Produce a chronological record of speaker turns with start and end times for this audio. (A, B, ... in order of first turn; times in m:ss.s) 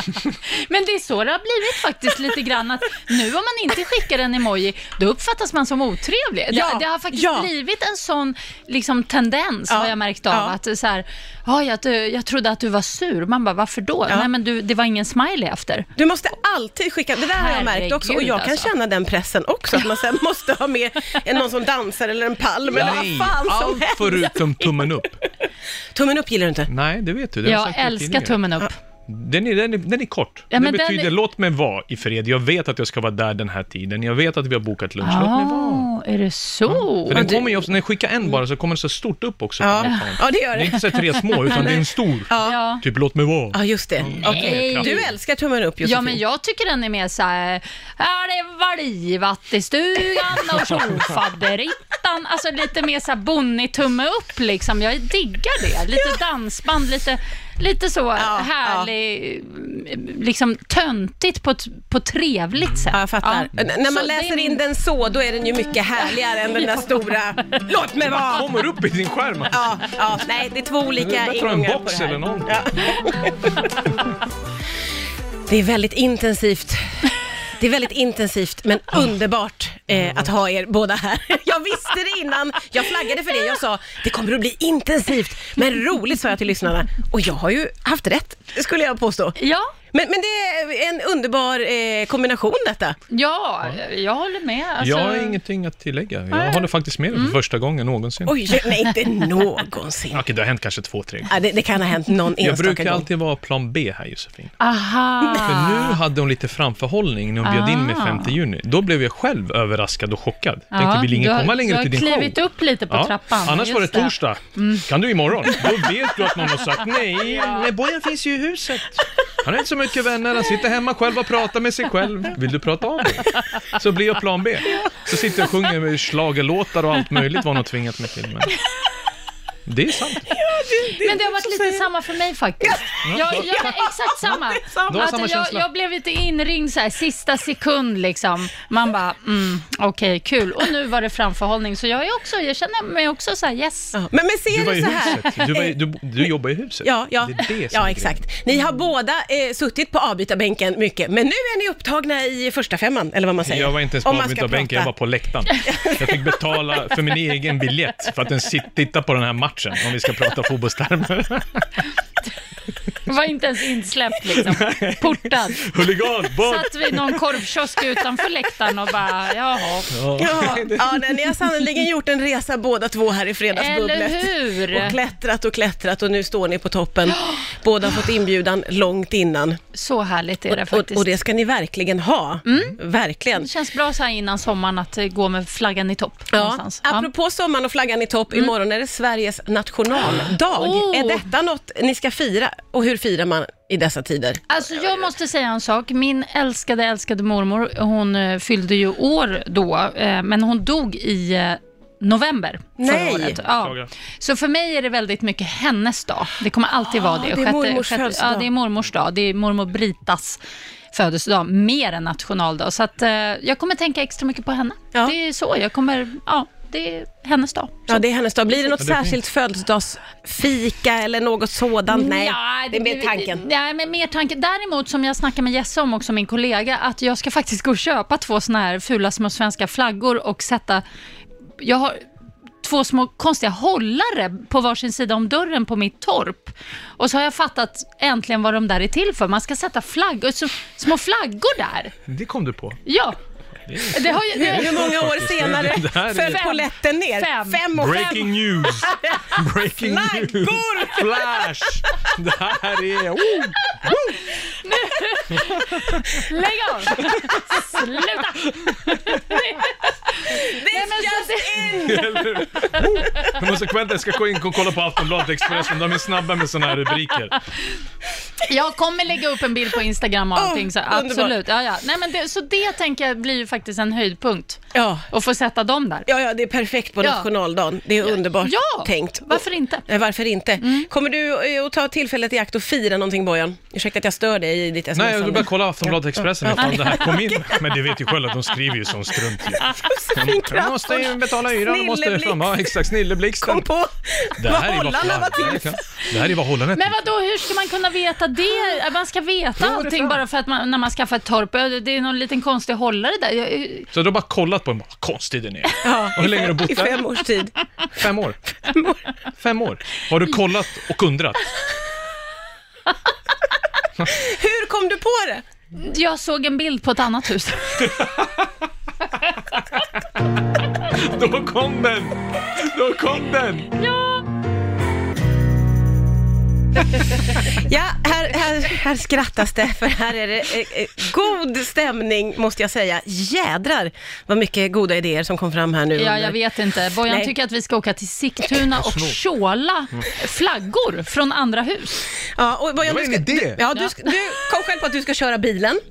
0:00.4-0:15.9 A
0:06.5-0:07.5 B
0:09.7-0:10.6 B
0:16.0-0:24.9 B
0:17.3-0:18.7 A
0:22.7-0:25.2 C
0:25.9-0:26.7 B
0:26.7-0:28.4 C
0:27.4-0:28.8 A
0:29.1-0:35.9 C
0:30.5-0:31.1 A
0:35.0-0:37.4 A
0:36.7-0:45.1 C
0:37.1-0:37.6 B
0:39.6-0:42.6 B
0:42.4-0:42.8 A
0:43.5-0:46.2 B
0:44.2-0:45.0 A
0:45.8-1:04.6 A
0:50.5-0:51.0 C
0:58.2-0:58.9 B
1:02.9-1:08.5 B
1:08.0-1:09.9 C
1:09.5-1:13.9 B
1:11.0-1:12.7 C
1:15.5-1:17.1 B
1:17.6-1:29.4 B
1:20.0-1:20.2 C
1:29.4-1:29.7 A
1:29.9-1:33.0 B
1:33.1-1:35.4 A
1:34.8-1:38.5 C
1:36.3-1:37.4 A
1:38.3-1:40.2 B
1:40.1-1:41.4 C
1:41.3-1:43.1 B
1:42.4-1:44.5 C
1:44.6-1:46.0 A
1:45.3-1:52.4 C
1:47.4-1:48.4 A
1:50.7-1:54.9 A
1:52.9-2:08.6 C
1:55.5-1:55.9 A
1:57.2-1:57.6 A
2:09.7-2:10.3 C
2:10.3-2:11.9 B
2:11.0-2:24.0 A
2:12.6-2:15.0 B
2:13.0-2:13.8 C
2:14.9-2:15.7 C
2:23.9-2:25.8 B
2:24.5-2:28.2 C
2:26.8-2:34.9 B
2:33.4-2:41.8 C
2:35.7-2:36.2 B
2:43.1-2:45.7 A
2:44.4-2:47.4 C
2:46.4-2:50.0 A
2:49.9-2:51.2 C
2:50.2-2:59.6 B
2:53.5-2:55.0 A
2:57.2-2:57.4 A
2:59.7-3:01.1 A
3:00.5-3:03.5 B
3:02.5-3:02.8 A
3:03.4-3:07.1 A
3:06.3-3:14.5 B
3:10.5-3:11.3 A
3:14.5-3:30.4 A
3:22.8-3:23.4 B
3:23.4-3:23.9 C
3:26.9-3:28.5 B
3:30.9-3:38.0 A
3:37.9-3:43.4 B
3:38.8-3:39.2 C
3:41.9-3:50.8 A
3:51.6-3:52.0 A
3:52.6-4:01.9 A
4:02.1-4:02.8 C
4:02.9-4:03.2 A
4:03.7-4:06.5 C
4:03.9-4:04.8 A
4:04.3-4:08.3 B
4:06.2-4:08.1 A
4:07.7-4:14.2 C
4:08.9-4:09.2 A
4:09.1-4:11.5 B
4:13.7-4:21.9 A
4:15.3-4:16.3 C
4:16.9-4:17.4 C
4:18.4-4:19.4 C
4:20.3-4:22.4 B
4:21.8-4:27.4 C
4:28.4-4:36.1 A
4:30.4-4:31.4 B
4:34.7-4:35.1 B
4:36.1-4:47.6 B
4:37.0-4:37.3 A
4:38.0-4:39.9 A
4:40.6-4:40.9 A
4:45.0-4:53.7 C
4:46.6-4:47.1 A
4:49.6-4:52.8 B
4:53.4-4:55.8 B
4:54.4-4:57.0 C
4:56.8-5:03.9 A
4:59.6-5:00.2 C
5:03.9-5:07.1 C
5:05.8-5:07.5 B
5:07.9-5:08.4 C
5:08.7-5:09.0 B
5:09.4-5:11.5 C
5:14.1-5:15.4 B
5:15.8-5:17.9 A
5:17.8-5:18.5 C
5:20.8-5:23.7 C
5:23.8-5:24.3 A
5:27.0-5:36.4 B
5:36.0-5:42.1 A
5:37.0-5:37.3 B
5:38.7-5:39.2 C
5:42.2-5:45.8 B
5:42.8-5:43.6 C
5:43.7-5:44.1 A